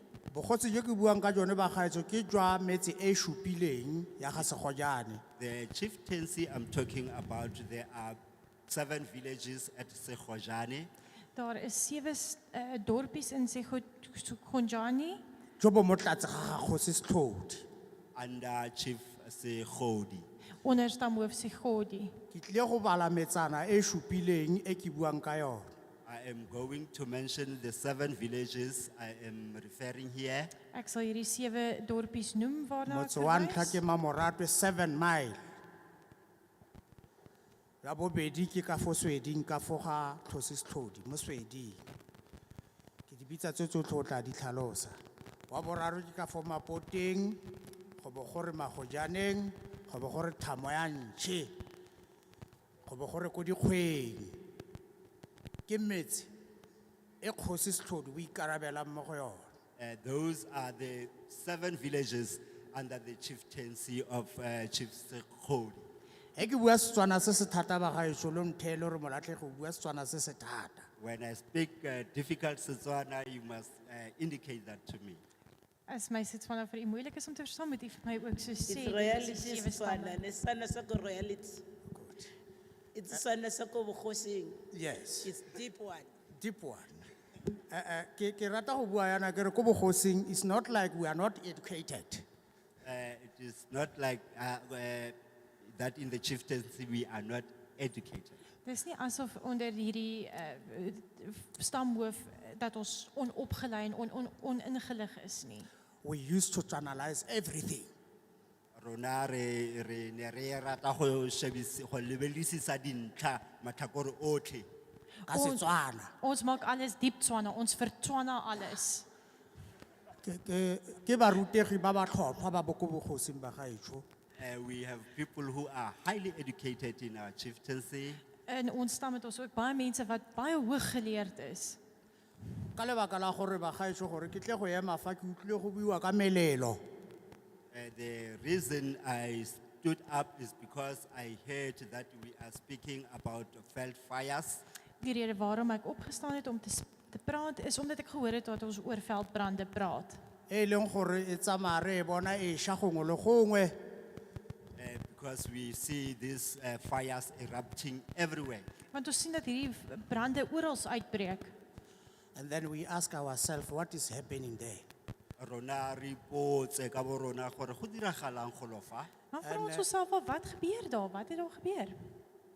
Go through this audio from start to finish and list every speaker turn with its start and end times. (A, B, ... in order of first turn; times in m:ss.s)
0:00.3-0:05.2 A
0:05.4-0:10.9 B
0:11.4-0:15.2 C
0:15.6-0:17.7 A
0:18.2-0:20.3 B
0:20.6-0:22.1 C
0:22.3-0:25.7 A
0:26.0-0:30.5 B
0:30.7-0:33.8 C
0:32.9-0:35.4 A
0:37.8-0:41.8 A
0:43.1-0:45.0 A
0:45.5-0:47.4 A
0:48.0-0:51.5 A
0:52.9-0:54.4 A
0:55.7-0:56.3 A
0:57.2-0:59.5 A
0:59.8-1:05.9 B
1:06.4-1:10.9 A
1:11.0-1:15.2 B
1:15.9-1:20.2 C
1:18.6-1:21.6 D
1:21.9-1:22.3 A
1:22.9-1:24.6 D
1:24.7-1:25.4 A
1:25.2-1:26.1 D
1:26.4-1:27.0 A
1:27.7-1:32.2 A
1:32.8-1:38.4 B
1:38.6-1:45.7 C
1:46.0-1:47.9 A
1:48.8-1:54.7 B
1:55.3-1:55.7 C
1:55.3-1:56.1 A
1:56.2-1:59.1 C
2:00.2-2:04.0 A
2:04.4-2:08.2 B
2:08.5-2:11.8 C
2:12.8-2:16.8 A
2:17.7-2:24.6 B
2:25.0-2:30.2 C
2:30.5-2:33.8 A
2:34.8-2:38.7 B
2:38.9-2:41.5 C
2:42.4-2:44.8 A
2:45.4-2:49.1 B
2:49.3-2:52.0 C
2:49.4-2:49.8 A